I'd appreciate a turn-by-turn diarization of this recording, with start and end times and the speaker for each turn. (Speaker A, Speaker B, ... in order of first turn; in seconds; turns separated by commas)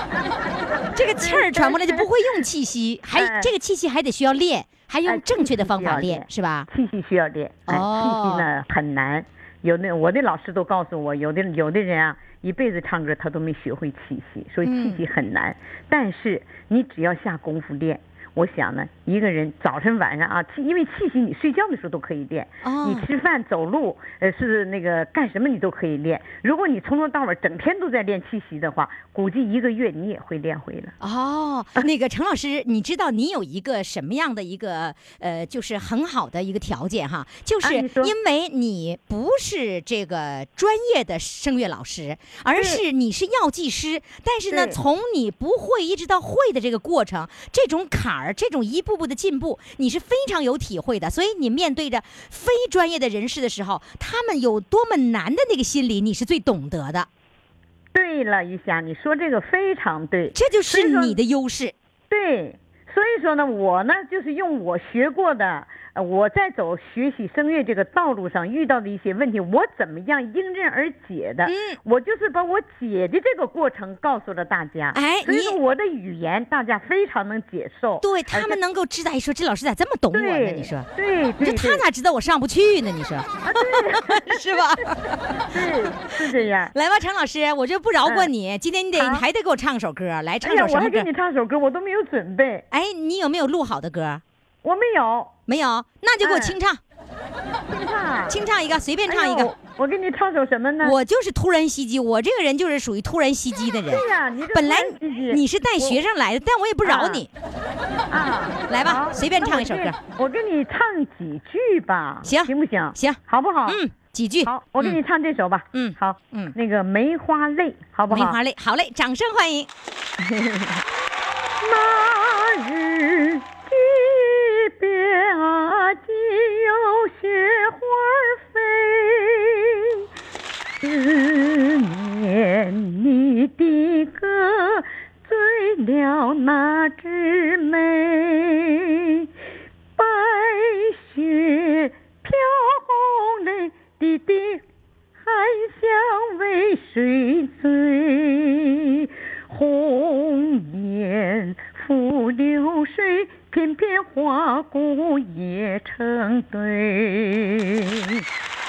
Speaker A: 0.9-6.7, Speaker B: 1.2-2.1, Speaker B: 3.2-3.5, Speaker B: 5.0-30.9, Speaker A: 7.7-8.5, Speaker A: 14.6-15.0, Speaker A: 22.6-23.1, Speaker A: 31.0-57.1, Speaker B: 37.6-38.1, Speaker B: 42.5-42.8, Speaker B: 44.5-44.8, Speaker B: 57.9-61.2, Speaker A: 60.3-61.7, Speaker B: 62.1-78.6, Speaker A: 71.4-71.8, Speaker A: 74.9-75.6, Speaker A: 78.0-80.9, Speaker B: 80.1-81.8, Speaker A: 81.4-85.9, Speaker B: 83.4-84.2, Speaker B: 85.4-86.7, Speaker A: 86.7-91.1, Speaker B: 88.0-88.3, Speaker B: 89.0-89.2, Speaker B: 90.4-92.6, Speaker A: 92.7-94.2, Speaker B: 94.6-95.3, Speaker A: 95.5-96.8, Speaker B: 96.2-96.6, Speaker B: 97.7-98.4, Speaker A: 98.3-99.5, Speaker B: 99.1-101.0, Speaker A: 100.8-107.3, Speaker B: 103.9-106.0, Speaker B: 106.8-107.2, Speaker B: 108.1-113.8, Speaker A: 108.7-110.0, Speaker A: 112.2-115.0, Speaker B: 114.4-118.4, Speaker A: 115.7-116.5, Speaker A: 118.1-119.7, Speaker B: 120.2-120.8, Speaker B: 121.6-129.7, Speaker B: 130.8-138.8, Speaker B: 140.0-144.6, Speaker B: 145.2-158.2